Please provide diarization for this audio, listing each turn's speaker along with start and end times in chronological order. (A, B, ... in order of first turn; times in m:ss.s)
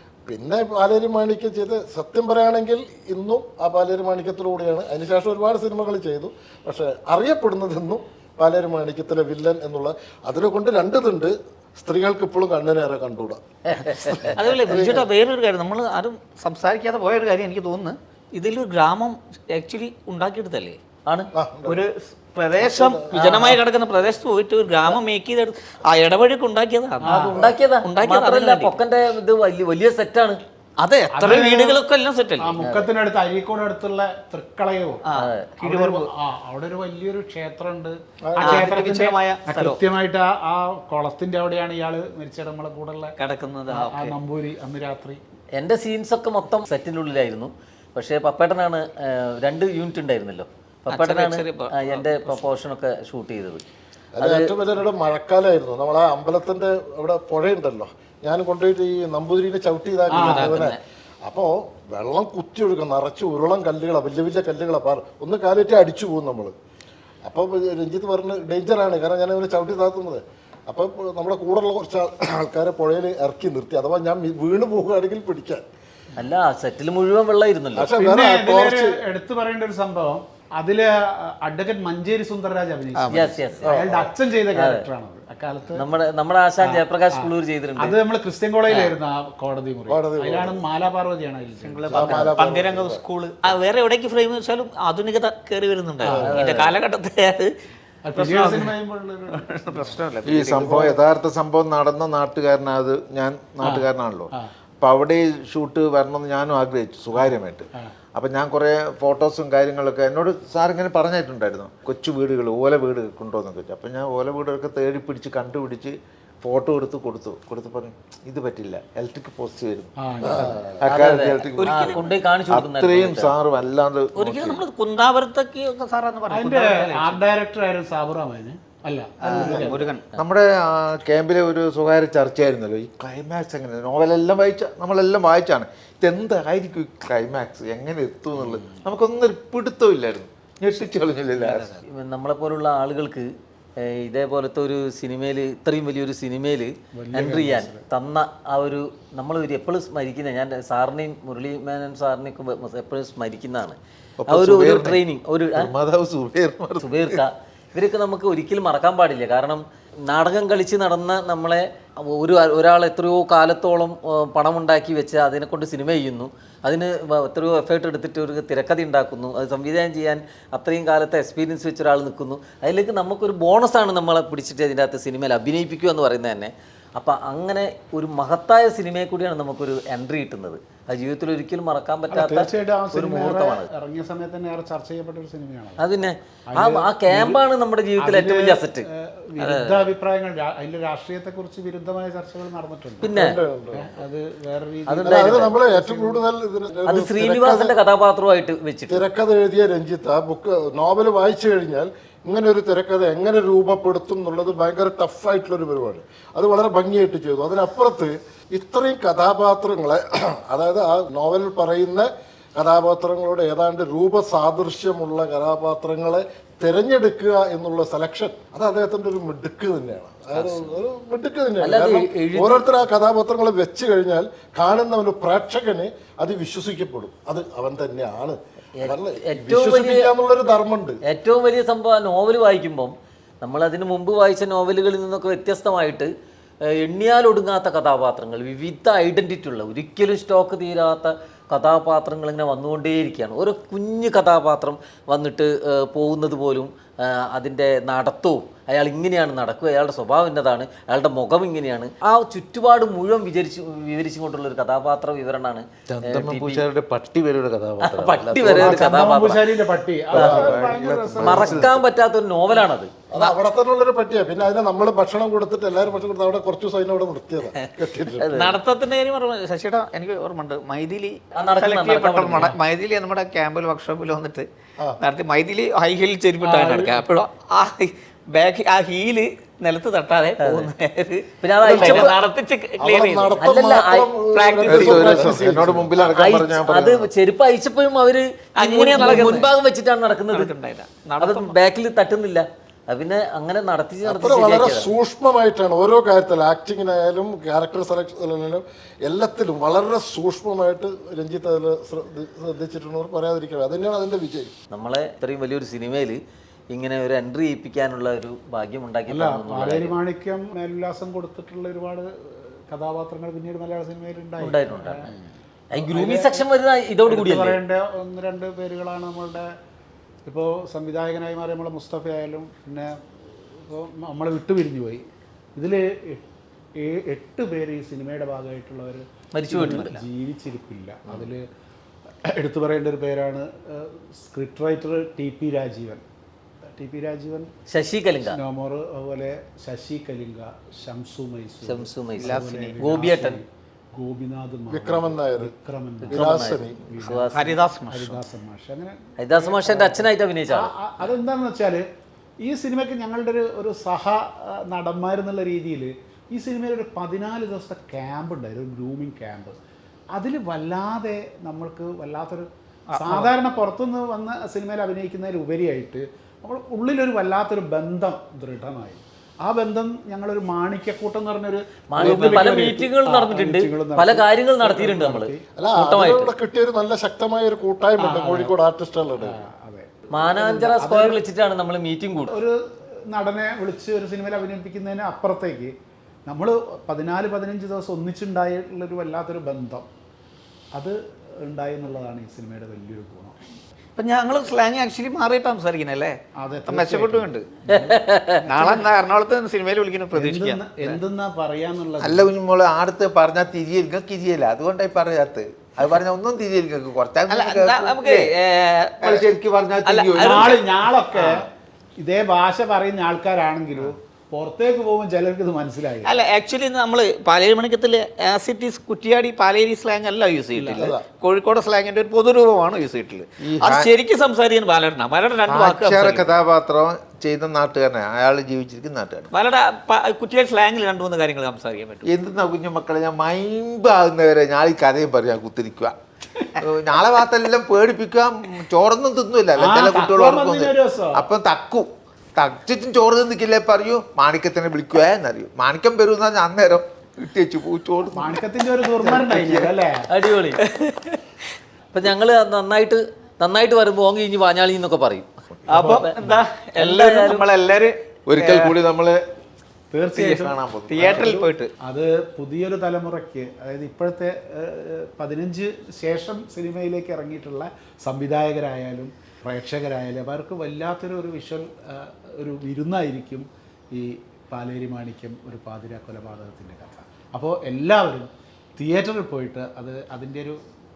0:00.3-0:15.1 A
0:13.7-0:14.4 B
0:14.4-0:20.8 C
0:21.4-0:21.8 A
0:21.7-0:28.8 C
0:22.6-0:23.1 A
0:23.1-0:23.6 B
0:27.0-0:27.4 D
0:27.2-0:30.4 B
0:30.8-0:32.6 C
0:31.1-0:31.8 D
0:32.4-0:35.0 D
0:32.6-0:32.9 B
0:35.1-0:36.1 C
0:35.2-0:35.5 B
0:35.6-0:43.2 D
0:38.3-0:38.7 A
0:38.4-0:39.8 C
0:43.2-0:44.2 C
0:43.7-0:45.2 D
0:45.6-0:53.6 B
0:50.9-0:52.5 C
0:54.2-1:06.5 A
0:54.2-0:54.5 B
1:00.1-1:00.5 D
1:00.1-1:00.8 B
1:07.2-1:15.6 A
1:16.2-1:17.9 B
1:17.8-1:19.0 A
1:18.0-1:25.8 D
1:23.0-1:23.3 C
1:23.1-1:23.8 B
1:23.6-1:24.1 A
1:24.6-1:24.8 B
1:25.8-1:28.0 B
1:26.6-1:32.0 D
1:29.9-1:30.6 A
1:31.6-1:37.5 C
1:31.9-1:33.0 A
1:32.0-1:32.3 B
1:36.0-1:36.4 D
1:36.0-1:36.7 B
1:38.0-1:41.0 D
1:38.2-1:38.7 C
1:39.3-1:40.8 C
1:40.2-2:04.6 E
1:43.6-1:44.5 D
1:47.2-1:47.9 D
2:00.0-2:00.8 D
2:00.2-2:00.6 A
2:00.9-2:03.4 B
2:01.6-2:02.0 C
2:04.2-2:07.2 C
2:06.3-2:09.9 D
2:09.2-2:10.0 C
2:10.2-2:21.8 E
2:21.8-2:33.8 B
2:27.0-2:27.8 D
2:34.2-2:35.0 E
2:34.3-2:35.7 B
2:35.6-2:37.2 E
2:36.8-3:03.7 B
3:02.1-3:05.9 D
3:05.8-3:08.9 B
3:06.5-3:07.4 D
3:08.0-3:13.2 D
3:09.4-3:09.9 B
3:13.0-3:13.4 B
3:13.1-3:13.9 A
3:13.7-3:16.2 D
3:14.9-3:15.6 B
3:15.0-3:17.7 A
3:16.9-3:19.0 B
3:18.9-3:51.0 A
3:40.3-3:40.8 B
3:41.6-3:42.7 B
3:48.8-3:50.1 B
3:51.1-3:56.1 B
3:56.7-4:16.6 B
4:15.9-4:19.0 E
4:17.8-4:19.4 B
4:18.4-4:21.8 D
4:20.1-4:21.8 E
4:20.1-4:20.7 B
4:21.2-4:22.9 B
4:23.1-4:28.3 A
4:28.2-4:28.6 B
4:28.3-4:34.5 C
4:31.4-4:32.6 B
4:35.0-4:43.5 C
4:40.4-4:40.7 B
4:41.4-4:42.1 B
4:41.6-4:42.2 A
4:42.8-4:46.0 A
4:43.4-4:44.1 B
4:44.3-4:45.2 C
4:44.7-4:47.1 E
4:46.0-4:50.5 B
4:48.6-4:49.5 C
4:50.3-4:51.6 C
4:51.2-4:54.9 B
4:54.0-5:04.5 A
5:04.7-5:06.2 B
5:06.7-5:10.0 B
5:09.1-5:15.1 D
5:14.4-5:15.1 B
5:15.7-5:17.6 B
5:15.7-5:16.5 D
5:17.1-5:19.5 D
5:20.2-5:22.9 D
5:23.5-5:31.5 D
5:29.3-5:30.0 B
5:32.3-5:36.0 D
5:36.6-5:37.5 D
5:37.7-5:38.4 B
5:38.2-5:51.8 D
5:41.6-5:43.4 B
5:42.2-5:42.8 C
5:44.7-5:45.5 A
5:46.1-5:47.4 B
5:46.1-5:46.8 A
5:47.3-5:48.2 C
5:49.2-5:50.7 B
5:52.4-5:59.6 D
6:00.1-6:15.4 D
6:02.9-6:03.3 C
6:11.9-6:16.3 B
6:12.0-6:12.6 C
6:15.6-6:19.4 A
6:18.0-6:18.6 D
6:19.2-6:21.2 D
6:20.1-6:22.4 B
6:22.3-6:22.6 D
6:23.1-6:25.7 D
6:26.3-6:29.9 D
6:30.7-6:33.4 D
6:34.0-6:37.5 C
6:36.4-6:38.9 D
6:37.7-6:38.4 B
6:38.5-6:41.0 C
6:40.1-6:42.4 D
6:42.0-6:48.3 E
6:47.3-6:49.3 C
6:49.0-6:50.6 E
6:49.8-6:51.3 C
6:50.1-6:51.5 D
6:52.0-6:56.2 D
6:56.0-7:06.3 C
7:00.6-7:01.0 A
7:03.4-7:03.9 E
7:05.5-7:09.3 E
7:09.3-7:12.1 C
7:12.0-7:16.0 E
7:16.6-7:29.7 E
7:19.5-7:21.3 D
7:28.1-7:30.1 D
7:30.1-7:30.6 B
7:30.8-7:31.2 C
7:31.9-7:36.2 B
7:35.7-7:36.0 D
7:35.7-7:38.8 C
7:36.8-7:37.5 B
7:38.3-7:39.2 E
7:39.9-8:00.6 D
7:40.2-7:41.3 E
7:40.2-7:41.7 C